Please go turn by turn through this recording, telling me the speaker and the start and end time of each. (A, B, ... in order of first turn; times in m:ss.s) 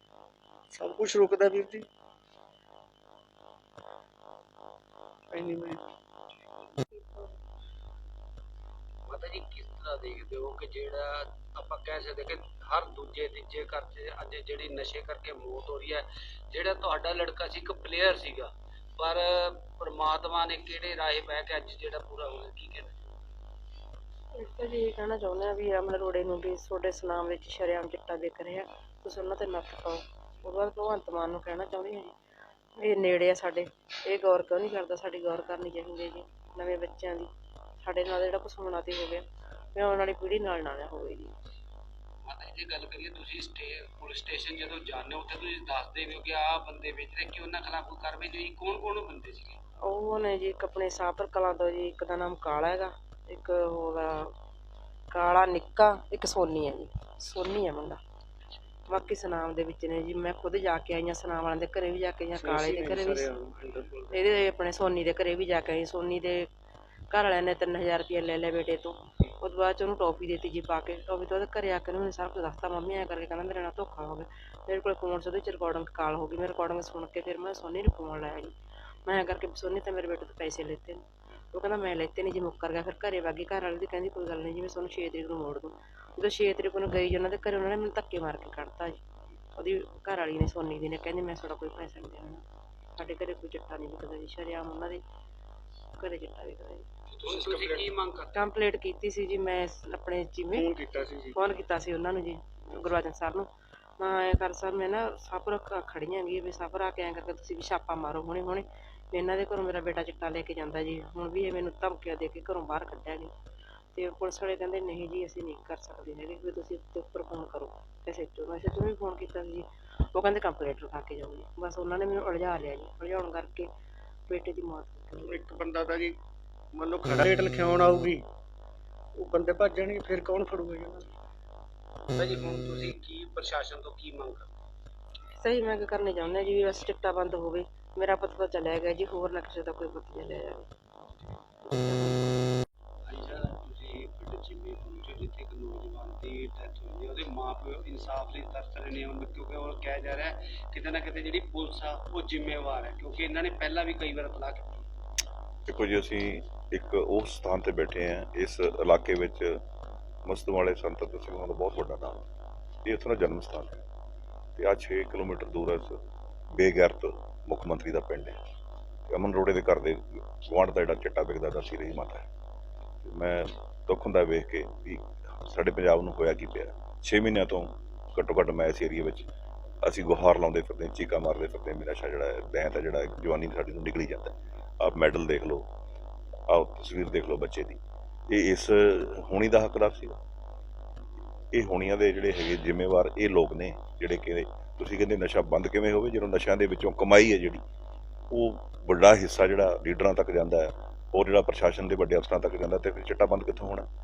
0:00.7-0:01.9 A
0:05.3-0:05.8 A
0:09.1-0:23.1 B
0:24.3-0:32.2 C
0:32.8-0:41.4 C
0:42.2-0:49.6 B
0:49.8-0:54.3 C
0:55.1-0:58.0 C
0:58.9-1:03.3 C
1:02.4-1:04.1 A
1:04.1-1:06.5 C
1:07.1-1:18.6 C
1:19.1-1:29.0 C
1:29.6-1:32.4 C
1:33.0-1:35.0 C
1:36.0-1:36.9 C
1:37.1-1:38.4 B
1:37.3-1:37.8 A
1:38.3-1:40.7 C
1:40.5-1:41.4 A
1:41.4-1:53.3 C
1:53.9-2:03.7 C
2:04.3-2:05.3 C
2:05.3-2:06.2 A
2:06.7-2:08.2 A
2:09.2-2:11.1 A
2:12.1-2:14.5 B
2:15.3-2:20.7 C
2:21.6-2:22.3 C
2:23.1-2:34.9 B
2:35.7-2:39.6 D
2:40.2-2:42.3 D
2:42.8-2:43.8 D
2:44.6-2:46.0 D
2:46.5-2:48.4 D
2:49.1-2:52.3 D
2:53.0-2:59.3 D
2:59.8-3:05.7 D
3:06.5-3:07.8 D
3:08.3-3:10.2 D
3:11.5-3:17.6 D
3:18.3-3:23.9 D